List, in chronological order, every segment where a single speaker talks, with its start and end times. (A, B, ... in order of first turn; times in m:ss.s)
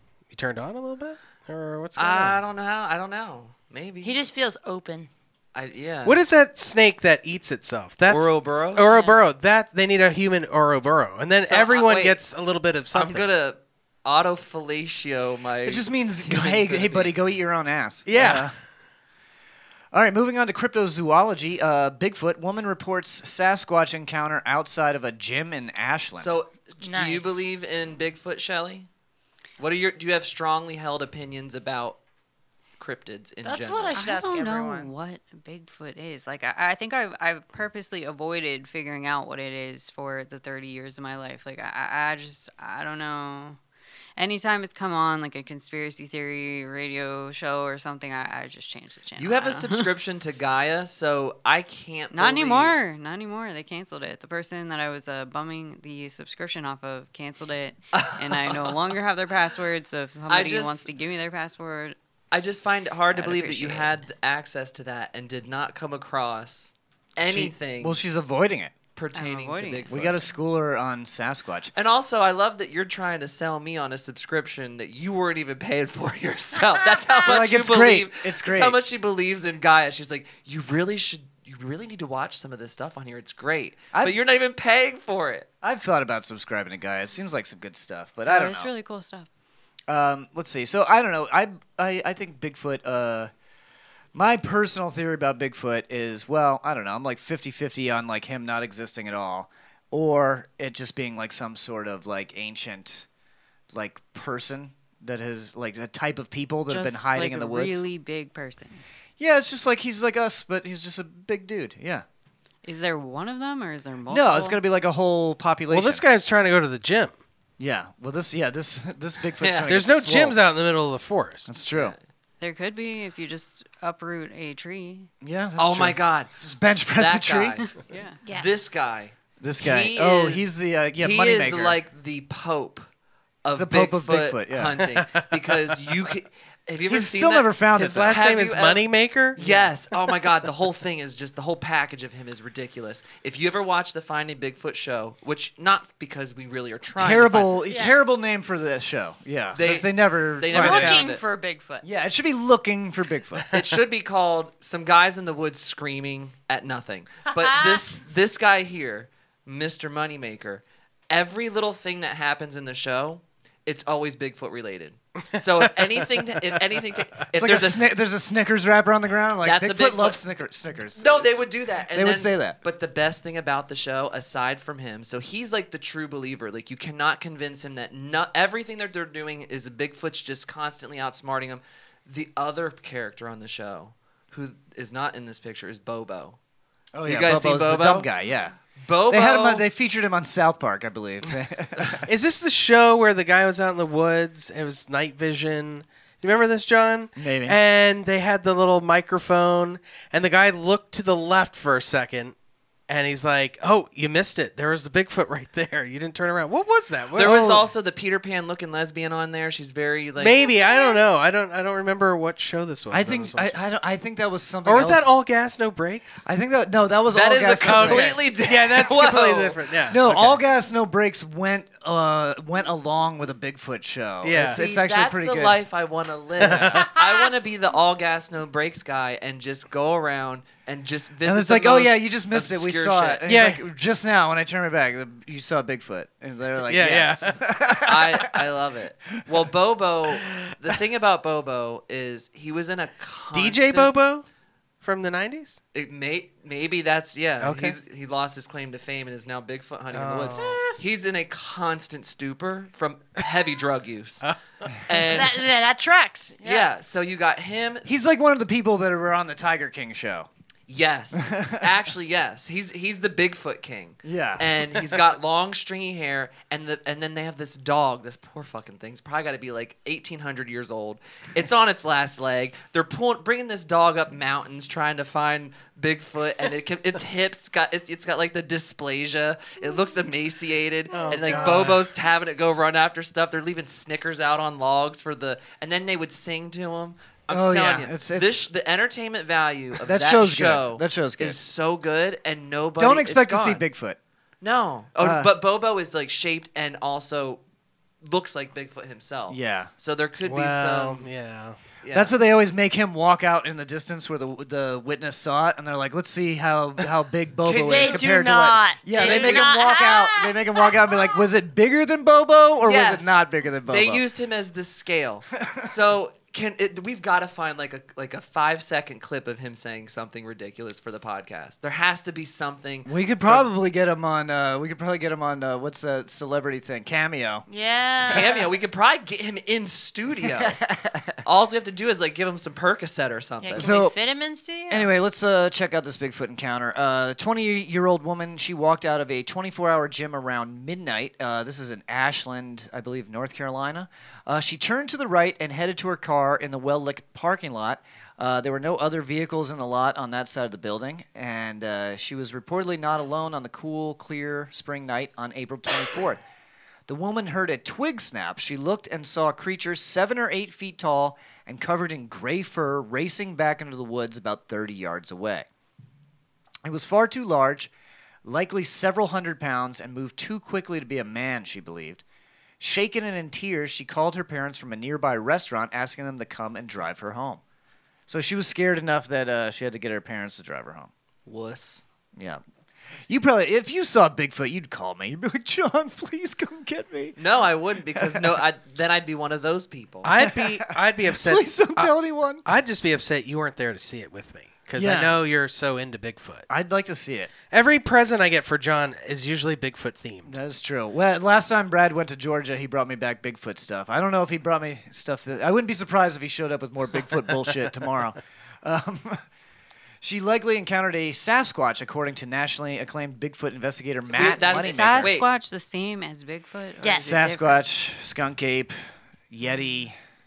0:00.3-0:02.4 A
0:02.0-0:04.1 B
0:04.0-0:05.1 C
0:05.5-0:06.2 B
0:06.0-0:13.3 A
0:08.1-0:09.0 B
0:08.8-0:09.2 C
0:11.4-0:12.2 B
0:12.9-0:17.2 B
0:15.6-0:18.5 D
0:18.0-0:18.5 A
0:19.9-0:26.3 D
0:26.2-0:28.9 B
0:26.8-0:27.5 C
0:29.6-0:32.0 B
0:32.8-0:34.0 B
0:33.4-0:34.9 C
0:33.9-0:43.6 E
0:44.2-0:49.9 E
0:49.2-0:52.8 B
0:52.1-1:02.0 E
0:57.9-0:58.8 B
1:00.3-1:00.9 B
1:02.3-1:08.0 B
1:03.1-1:03.9 E
1:07.2-1:08.7 D
1:09.0-1:10.3 B
1:09.1-1:10.0 E
1:09.9-1:11.7 D
1:11.7-1:25.5 B
1:17.2-1:18.8 D
1:23.9-1:24.2 D
1:25.6-1:28.7 D
1:28.2-1:29.3 E
1:29.9-1:33.3 D
1:34.1-1:43.0 D
1:43.7-1:47.8 D
1:46.7-1:48.8 E
1:49.2-1:52.0 D
1:52.6-1:54.6 E
1:54.1-1:56.0 D
1:55.7-1:57.2 A
1:57.6-2:00.4 D
1:59.4-1:59.7 B
1:59.7-2:01.5 A
2:01.5-2:01.9 D
2:01.7-2:02.0 B
2:02.4-2:05.1 E
2:05.2-2:07.6 D
2:05.6-2:06.4 B
2:06.9-2:12.9 B
2:07.9-2:08.2 E
2:09.4-2:11.8 D
2:13.4-2:27.6 B
2:13.5-2:14.7 D
2:14.8-2:15.6 A
2:16.9-2:18.2 D
2:17.8-2:19.4 A
2:19.4-2:19.7 D
2:26.9-2:31.1 D
2:27.7-2:27.9 C
2:29.5-2:31.2 B
2:30.5-2:31.8 C
2:31.8-2:33.5 D
2:33.5-2:47.9 B
2:37.4-2:37.8 C
2:45.7-2:46.1 A
2:47.3-2:52.6 D
2:49.4-2:50.2 B
2:51.0-3:06.4 B
3:06.9-3:08.6 D
3:07.0-3:08.1 B
3:08.8-3:09.6 B
3:09.1-3:12.1 D
3:12.0-3:22.3 A
3:17.2-3:17.6 D
3:22.9-3:27.6 A
3:27.1-3:30.4 B
3:27.2-3:27.6 D
3:30.2-3:33.5 A
3:30.4-3:31.0 C
3:32.9-3:35.1 D
3:34.6-3:36.2 A
3:36.2-3:38.2 D
3:37.1-3:39.6 B
3:37.6-3:40.4 A
3:39.9-3:45.6 D
3:44.2-3:44.6 A
3:44.3-3:53.2 B
3:46.4-3:46.8 A
3:46.4-3:46.8 D
3:47.0-3:47.3 C
3:51.2-3:58.3 D
3:53.2-3:53.6 A
3:56.6-3:57.4 A
3:57.8-4:03.9 B
4:03.3-4:04.2 A
4:04.8-4:05.6 A
4:05.7-4:14.3 B
4:07.4-4:07.8 A
4:09.9-4:10.6 A
4:10.3-4:10.8 C
4:14.8-4:15.4 B
4:15.0-4:16.7 C
4:16.4-4:17.9 B
4:17.8-4:20.3 D
4:20.7-4:53.6 B
4:21.1-4:21.7 D
4:24.0-4:24.5 D
4:40.9-4:41.7 A
4:41.1-4:41.8 D
4:47.3-4:48.5 D
4:49.8-4:51.4 D
4:52.8-4:54.0 D
4:54.4-4:57.4 B
4:55.0-4:55.3 D
4:58.0-5:01.1 B
4:59.3-4:59.7 D
5:00.2-5:01.6 A
5:01.8-5:02.1 B
5:01.9-5:14.0 D
5:07.4-5:08.0 B
5:07.6-5:11.1 C
5:08.9-5:09.5 B
5:12.6-5:23.4 B
5:15.4-5:15.7 D
5:22.8-5:27.4 D
5:27.5-5:28.4 C
5:28.1-5:30.6 B
5:30.4-5:31.1 D
5:31.2-5:33.8 B
5:33.4-5:34.9 C
5:33.5-5:34.0 D
5:34.7-5:56.2 D
5:56.9-6:05.5 D
6:06.6-6:07.7 D
6:08.2-6:12.0 D
6:12.6-6:17.4 D
6:18.1-6:20.9 D
6:21.2-6:21.8 B
6:22.2-6:22.4 D
6:23.1-6:27.2 D
6:27.2-6:30.1 B
6:27.8-6:28.4 D
6:30.0-6:31.9 A
6:30.2-6:32.4 D
6:32.4-6:36.5 A
6:34.8-6:35.2 D
6:36.5-6:37.3 D
6:37.5-6:40.3 A
6:40.3-6:49.2 D
6:50.0-6:55.2 D
6:54.1-6:55.3 B
6:54.2-6:57.6 E
6:56.8-6:57.2 C
6:57.0-6:59.9 D